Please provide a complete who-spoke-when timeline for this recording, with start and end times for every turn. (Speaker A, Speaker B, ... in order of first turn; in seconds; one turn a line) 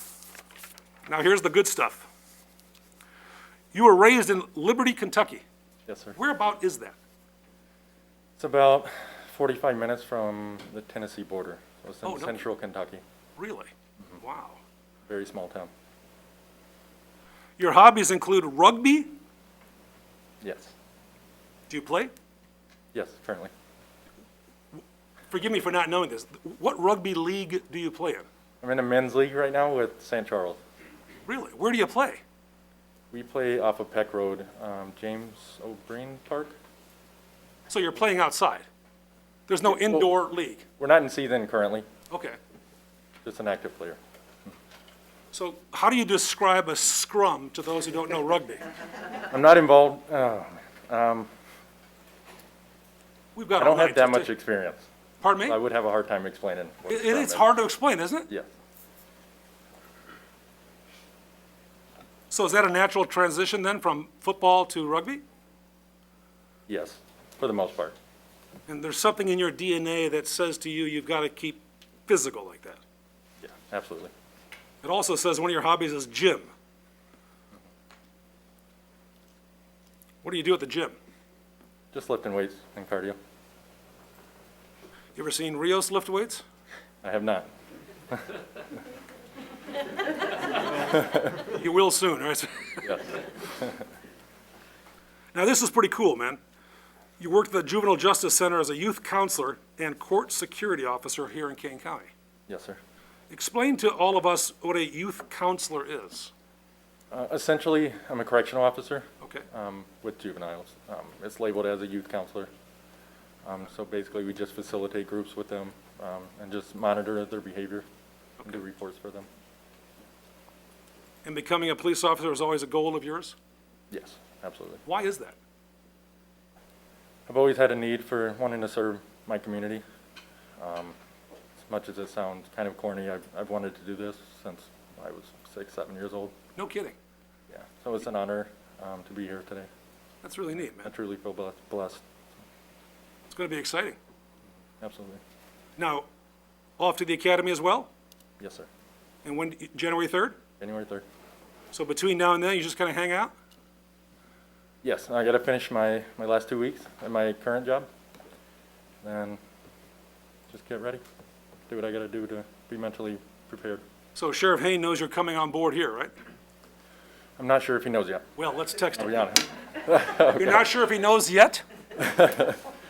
Speaker A: 1.1-2.1
Speaker A: 3.7-5.4
Speaker B: 5.9-6.2
Speaker A: 6.2-7.0
Speaker B: 8.4-13.0
Speaker A: 12.0-12.4
Speaker A: 13.4-14.6
Speaker B: 15.1-15.7
Speaker A: 17.6-19.1
Speaker B: 20.4-20.7
Speaker A: 21.7-22.1
Speaker B: 22.9-23.5
Speaker A: 25.3-28.2
Speaker B: 28.6-30.6
Speaker A: 31.2-32.2
Speaker B: 33.1-36.5
Speaker A: 37.7-38.6
Speaker A: 39.5-40.6
Speaker B: 39.7-40.1
Speaker B: 40.8-41.9
Speaker A: 42.1-42.4
Speaker B: 43.2-44.0
Speaker A: 45.3-48.6
Speaker B: 49.3-51.3
Speaker A: 53.3-54.3
Speaker B: 53.6-54.9
Speaker A: 55.2-55.6
Speaker B: 55.4-57.6
Speaker A: 56.9-58.3
Speaker A: 62.3-65.2
Speaker B: 66.7-68.0
Speaker A: 68.7-72.8
Speaker B: 73.4-74.1
Speaker A: 74.8-76.5
Speaker A: 80.2-81.0
Speaker B: 81.9-83.2
Speaker A: 85.1-86.4
Speaker B: 87.0-87.5
Speaker B: 88.1-88.4
Speaker A: 90.9-93.2
Speaker B: 92.8-93.8
Speaker A: 95.3-96.4
Speaker A: 97.2-102.1
Speaker B: 102.5-102.8
Speaker A: 103.3-106.3
Speaker B: 107.1-112.5
Speaker A: 109.2-109.5
Speaker B: 113.4-117.8
Speaker B: 118.4-119.3
Speaker A: 121.2-123.3
Speaker B: 123.9-124.8
Speaker A: 124.8-125.3
Speaker B: 127.3-129.8
Speaker B: 130.6-130.9
Speaker B: 131.6-136.3
Speaker A: 136.6-136.9
Speaker B: 137.5-139.7
Speaker A: 140.2-140.9
Speaker B: 140.7-142.0
Speaker A: 143.3-144.0
Speaker B: 144.8-145.2
Speaker A: 145.8-146.1
Speaker A: 146.8-147.9
Speaker B: 148.4-148.7
Speaker A: 149.2-150.4
Speaker B: 150.6-151.0
Speaker A: 151.7-153.3
Speaker B: 154.8-157.9
Speaker B: 159.0-159.4
Speaker B: 160.5-161.0
Speaker B: 161.7-163.8
Speaker A: 164.1-166.1
Speaker B: 167.4-168.3
Speaker A: 168.4-169.4
Speaker B: 168.9-170.7
Speaker A: 170.3-171.6
Speaker B: 172.0-172.6